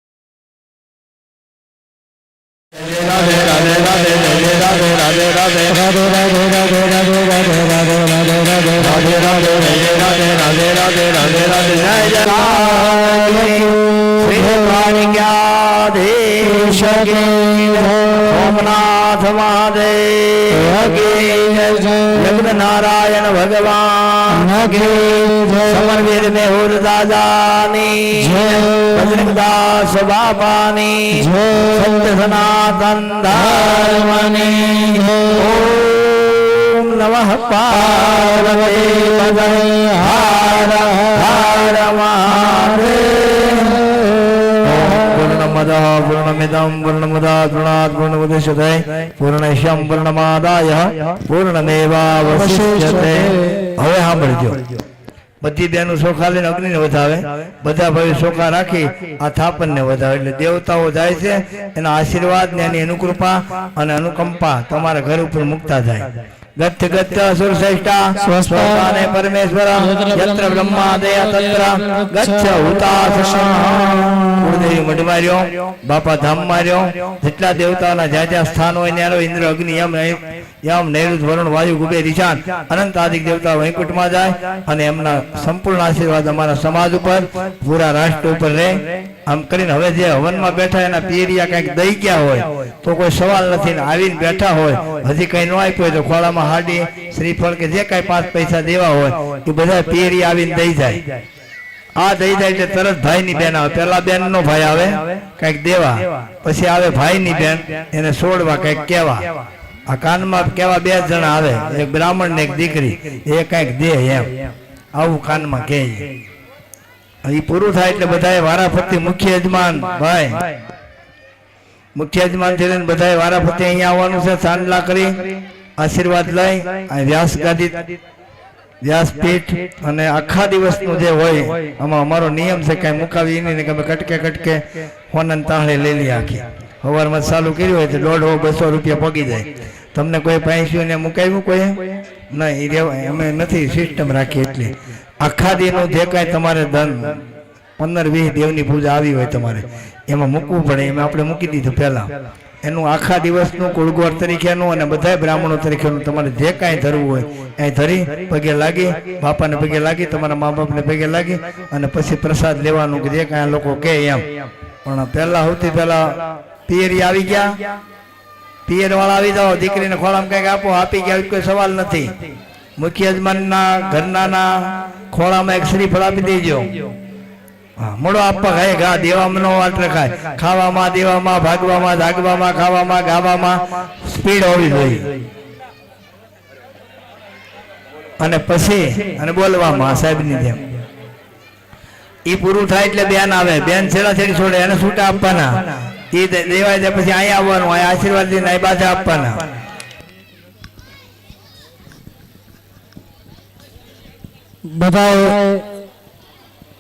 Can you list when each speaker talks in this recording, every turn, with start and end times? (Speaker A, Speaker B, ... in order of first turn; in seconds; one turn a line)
Speaker A: 2.7-5.8
Speaker B: 5.7-9.8
Speaker A: 8.8-54.8
Speaker B: 12.2-14.9
Speaker B: 16.4-18.6
Speaker B: 20.5-22.4
Speaker B: 24.3-26.0
Speaker B: 28.2-29.3
Speaker B: 31.1-32.3
Speaker B: 33.3-35.5
Speaker B: 37.9-41.3
Speaker B: 43.5-45.2
Speaker B: 52.2-53.8
Speaker A: 55.4-101.1
Speaker B: 68.2-69.2
Speaker B: 69.8-74.9
Speaker A: 102.0-109.3
Speaker A: 109.9-116.1
Speaker A: 117.2-120.5
Speaker A: 122.0-128.0
Speaker A: 128.8-147.3
Speaker A: 147.8-152.1
Speaker A: 152.6-164.3
Speaker A: 164.8-167.6
Speaker A: 168.7-172.1
Speaker A: 172.8-176.8
Speaker A: 177.8-185.1
Speaker A: 188.2-190.7
Speaker A: 192.3-199.5
Speaker B: 204.7-205.7